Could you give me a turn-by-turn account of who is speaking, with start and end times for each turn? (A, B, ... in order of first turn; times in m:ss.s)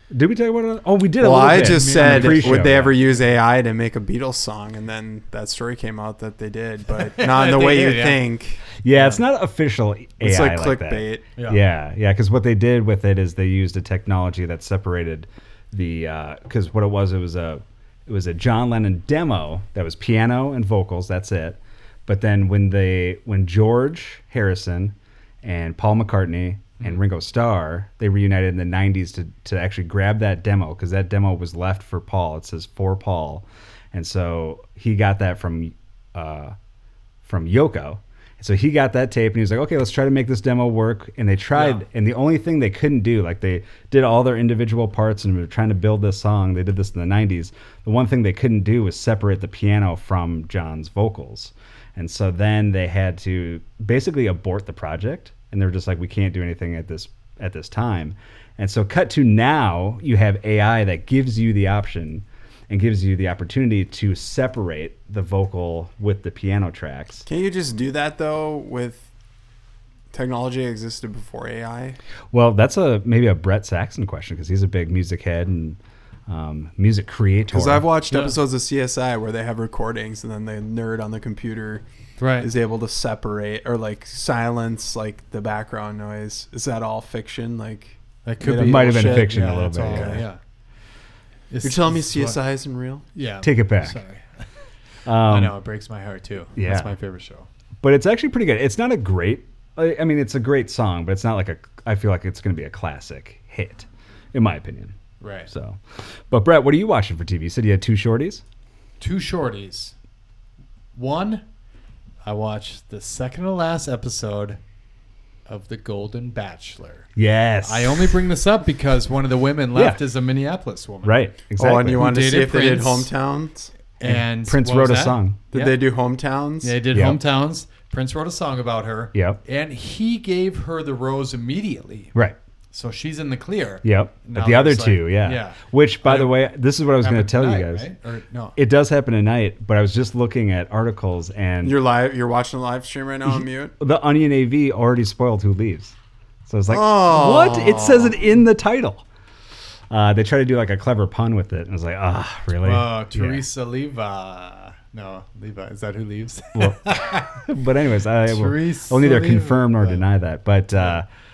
0:00.1-0:02.9 A
0:01.2-0:08.7 B
0:01.4-0:03.2 C
0:06.9-0:08.2 C
0:08.8-0:36.6 A
0:08.9-0:09.2 C
0:10.2-0:11.2 B
0:11.4-0:11.6 C
0:37.2-1:07.2 A
0:41.5-0:41.8 C
1:07.3-1:09.1 B
1:10.1-1:12.0 B
1:12.3-1:17.9 A
1:17.5-1:21.8 B
1:18.1-1:18.4 C
1:22.2-1:22.5 C
1:22.4-1:30.2 B
1:28.2-1:30.4 C
1:28.5-1:30.2 A
1:31.5-1:32.4 C
1:31.6-1:33.1 B
1:33.2-1:34.5 C
1:33.4-1:34.0 A
1:35.1-1:35.6 A
1:35.2-1:37.5 C
1:36.6-1:36.9 A
1:37.8-1:45.0 A
1:45.2-1:45.5 C
1:45.5-1:48.4 A
1:49.0-1:49.9 C
1:51.0-1:51.4 C
1:52.2-1:54.6 C
1:55.5-1:57.1 C
1:57.2-1:58.2 A
1:57.6-2:01.3 C
1:59.7-2:00.0 A
2:01.0-2:02.1 A
2:01.6-2:03.7 B
2:01.9-2:03.1 C
2:04.0-2:05.8 C
2:04.0-2:05.4 A
2:05.5-2:06.8 B
2:06.6-2:12.1 C
2:06.9-2:07.2 A
2:09.1-2:09.4 A
2:12.7-2:16.5 C
2:13.8-2:17.9 A
2:17.0-2:18.6 C
2:18.6-2:21.8 A
2:21.6-2:23.7 B
2:23.4-2:25.9 A
2:26.5-2:29.0 A
2:26.7-2:28.3 B
2:29.9-2:33.4 A
2:32.6-2:37.4 C
2:36.6-2:41.1 A
2:38.3-2:40.1 C